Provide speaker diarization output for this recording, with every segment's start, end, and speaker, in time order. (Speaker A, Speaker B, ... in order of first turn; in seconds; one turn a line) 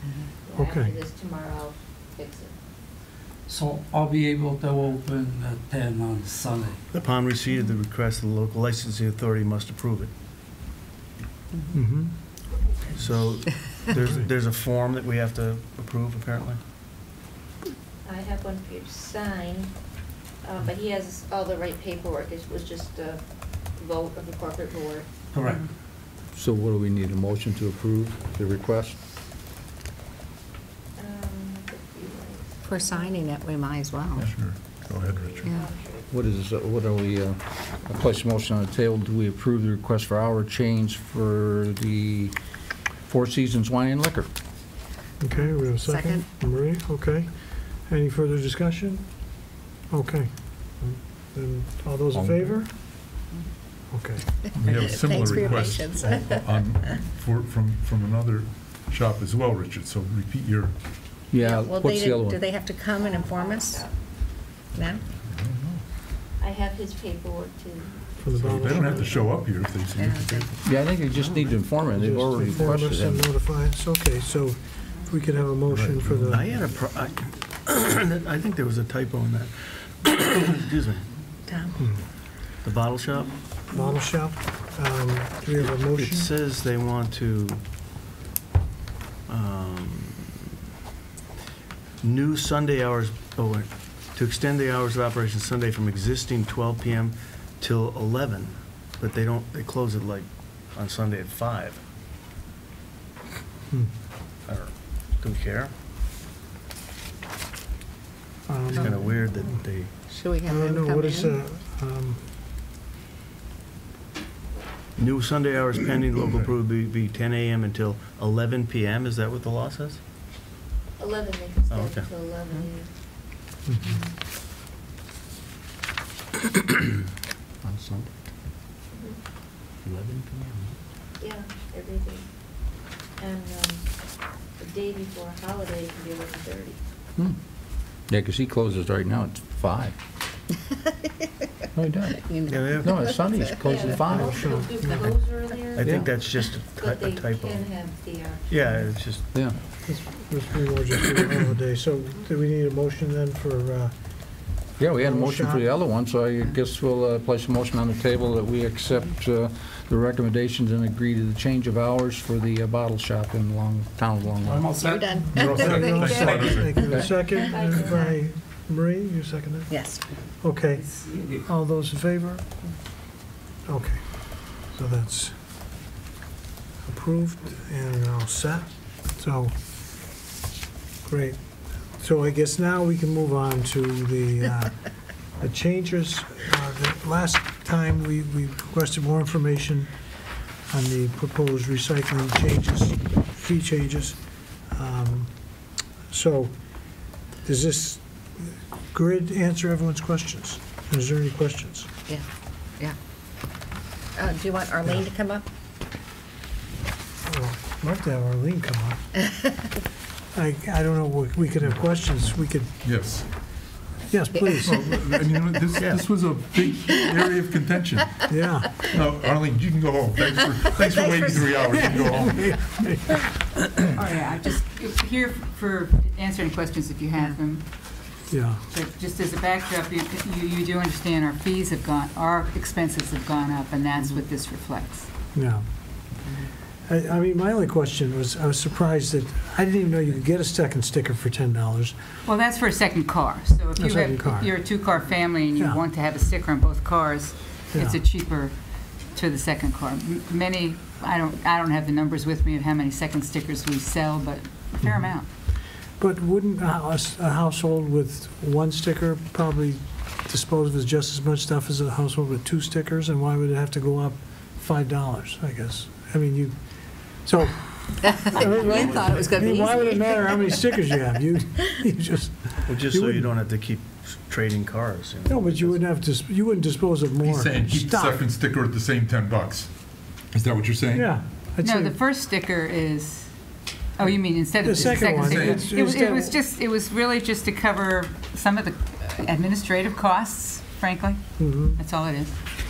Speaker A: 0.4-2.5
Speaker B: 0.5-0.9
Speaker C: 3.5-6.8
Speaker D: 6.9-10.1
Speaker B: 11.7-12.2
Speaker D: 12.9-16.6
Speaker B: 14.0-14.2
Speaker A: 18.0-19.7
Speaker A: 20.4-23.2
Speaker A: 23.7-25.1
Speaker C: 25.3-25.6
Speaker E: 26.3-29.0
Speaker A: 30.9-33.3
Speaker F: 32.7-34.3
Speaker G: 34.2-35.4
Speaker A: 35.0-36.1
Speaker E: 36.1-42.3
Speaker E: 43.0-44.3
Speaker B: 45.2-49.3
Speaker F: 45.8-46.2
Speaker B: 49.9-52.7
Speaker E: 52.1-52.5
Speaker B: 53.9-54.2
Speaker G: 54.5-60.7
Speaker F: 54.8-56.9
Speaker E: 61.3-62.4
Speaker F: 61.4-63.8
Speaker A: 62.9-64.0
Speaker F: 64.7-65.0
Speaker G: 65.2-65.8
Speaker A: 66.4-69.2
Speaker B: 68.2-69.3
Speaker G: 68.3-70.7
Speaker F: 70.0-70.5
Speaker E: 70.6-73.2
Speaker B: 71.9-76.4
Speaker G: 75.7-76.2
Speaker D: 76.1-81.0
Speaker B: 81.8-82.0
Speaker D: 82.6-83.3
Speaker B: 83.7-86.3
Speaker D: 85.6-87.6
Speaker D: 89.3-90.4
Speaker D: 92.0-101.8
Speaker D: 104.5-105.7
Speaker B: 108.5-109.0
Speaker D: 108.7-110.0
Speaker F: 110.1-111.4
Speaker B: 110.4-112.2
Speaker D: 115.0-120.0
Speaker A: 121.0-122.9
Speaker D: 121.7-122.1
Speaker B: 123.7-124.0
Speaker E: 127.6-128.1
Speaker A: 128.9-129.2
Speaker E: 129.8-130.7
Speaker A: 131.2-132.3
Speaker A: 133.2-133.9
Speaker A: 134.6-136.8
Speaker E: 138.1-139.9
Speaker E: 141.7-142.2
Speaker F: 142.2-143.6
Speaker D: 142.5-143.2
Speaker E: 142.8-144.5
Speaker A: 143.6-148.8
Speaker B: 144.1-144.8
Speaker D: 145.8-147.7
Speaker D: 148.5-149.2
Speaker E: 149.3-149.6
Speaker B: 149.8-155.7
Speaker E: 154.8-164.7
Speaker C: 164.4-166.1
Speaker F: 164.8-166.9
Speaker E: 165.3-166.0
Speaker G: 165.4-166.8
Speaker B: 165.4-169.7
Speaker E: 166.8-167.1
Speaker A: 166.9-168.2
Speaker F: 169.7-170.0
Speaker B: 170.4-172.4
Speaker C: 170.9-171.4
Speaker B: 173.7-175.3
Speaker B: 176.8-179.5
Speaker B: 181.1-181.4
Speaker B: 181.9-184.8
Speaker B: 185.4-189.9
Speaker B: 190.7-194.2
Speaker B: 194.7-195.3
Speaker B: 196.1-201.9
Speaker F: 204.2-205.5
Speaker B: 207.2-209.0
Speaker B: 210.3-212.7
Speaker G: 212.8-213.3
Speaker B: 214.1-214.8
Speaker G: 214.6-218.2
Speaker D: 215.8-216.0
Speaker B: 218.3-218.8
Speaker G: 218.8-222.5
Speaker F: 220.8-222.0
Speaker B: 221.7-223.8
Speaker H: 223.9-227.6
Speaker B: 228.3-228.6
Speaker H: 228.7-235.1
Speaker B: 235.3-235.6
Speaker B: 236.9-241.9
Speaker H: 242.2-248.5
Speaker B: 243.8-244.6
Speaker B: 245.6-245.8
Speaker B: 247.7-248.0
Speaker H: 249.1-255.2
Speaker B: 254.8-255.1
Speaker B: 256.0-266.6
Speaker B: 267.2-273.3
Speaker F: 268.2-268.9
Speaker D: 268.7-269.6
Speaker F: 269.5-270.5
Speaker D: 272.7-275.8
Speaker B: 275.2-278.2
Speaker G: 277.2-279.7
Speaker G: 280.3-281.1
Speaker B: 280.9-282.0
Speaker H: 281.6-283.3
Speaker H: 284.0-291.2
Speaker B: 284.6-286.4
Speaker B: 291.4-291.8
Speaker H: 291.8-292.3